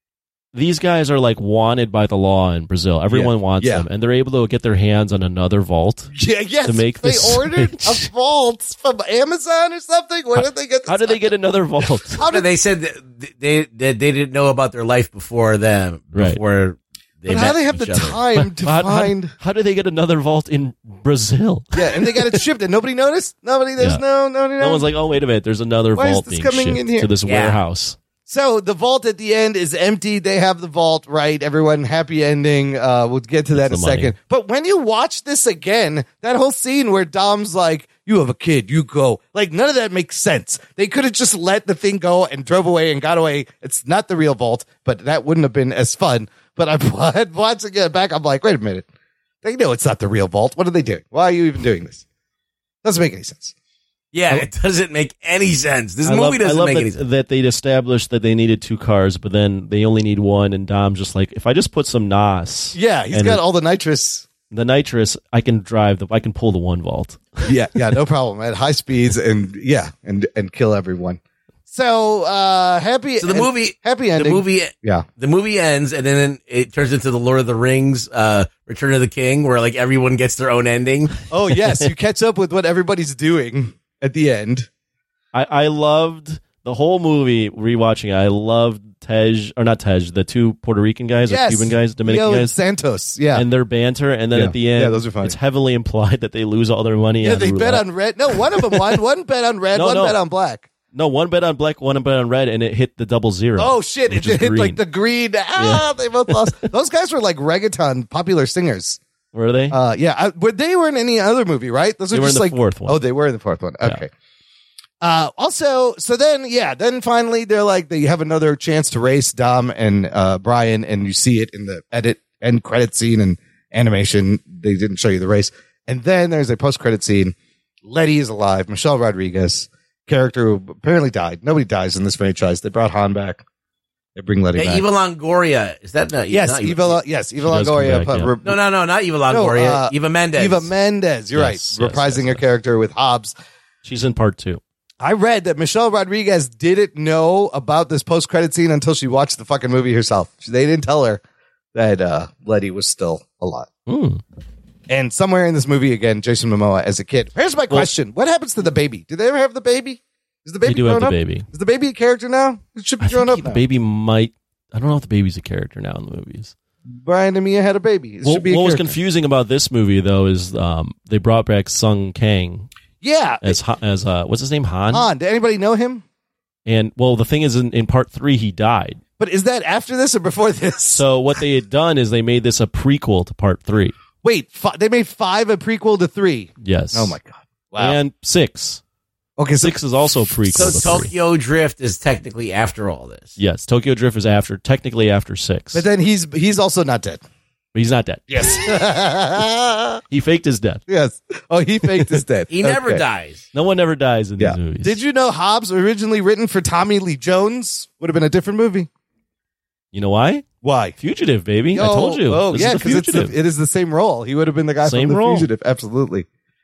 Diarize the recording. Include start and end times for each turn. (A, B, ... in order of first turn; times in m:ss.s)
0:00.5-0:06.1 A
0:03.1-0:03.9 B
0:06.1-0:11.3 B
0:06.6-0:08.1 A
0:10.4-0:12.2 A
0:12.1-0:12.5 B
0:12.3-0:18.2 C
0:16.1-0:16.4 A
0:17.3-0:19.3 B
0:18.4-0:22.4 A
0:21.8-0:24.9 B
0:23.8-0:24.0 A
0:24.6-0:28.0 A
0:26.0-0:27.1 B
0:27.3-0:27.6 C
0:28.3-0:48.9 B
0:33.5-0:34.1 A
0:49.4-0:52.0 B
0:52.8-0:53.5 B
0:54.1-0:57.0 C
0:56.0-1:03.4 A
1:02.7-1:04.3 B
1:04.5-1:07.5 A
1:07.4-1:15.0 B
1:13.2-1:21.1 C
1:21.3-1:24.7 B
1:21.5-1:21.9 A
1:25.3-1:32.6 A
1:31.3-1:33.4 B
1:33.3-1:39.0 A
1:34.3-1:35.4 B
1:37.2-1:40.7 B
1:39.7-1:40.2 A
1:40.9-1:44.8 A
1:43.6-1:49.0 B
1:45.6-1:46.5 A
1:49.3-1:49.8 A
1:49.7-1:54.1 B
1:52.1-1:53.0 A
1:55.0-2:13.4 B
2:14.2-2:14.8 B
2:14.6-2:17.0 C
2:16.3-2:18.6 B
2:17.4-2:18.3 A
2:18.4-2:20.7 C
2:19.3-2:23.3 B
2:21.3-2:22.4 A
2:23.8-2:24.6 A
2:25.0-2:31.2 B
2:31.7-2:33.7 B
2:33.9-2:34.2 A
2:34.9-2:43.6 B
2:40.6-2:41.5 A
2:43.0-2:46.5 A
2:47.0-2:49.0 B
2:48.2-2:52.7 A
2:53.0-2:53.6 B
2:53.4-2:55.1 A
2:54.9-2:56.0 B
2:56.7-2:59.0 A
2:59.2-3:01.0 B
3:00.9-3:04.0 A
3:04.2-3:08.0 B
3:06.6-3:07.2 A
3:07.8-3:08.8 A
3:09.4-3:11.0 B
3:09.6-3:11.1 A
3:10.5-3:13.4 C
3:13.4-3:15.8 A
3:15.7-3:17.2 B
3:17.7-3:18.7 A
3:18.3-3:20.0 B
3:20.1-3:20.8 A
3:20.9-3:23.0 B
3:22.5-3:23.4 C
3:23.5-3:25.0 A
3:24.4-3:28.9 B
3:29.9-3:30.5 A
3:30.6-3:31.0 B
3:31.0-3:33.3 A
3:31.7-3:36.3 B
3:34.8-3:35.5 A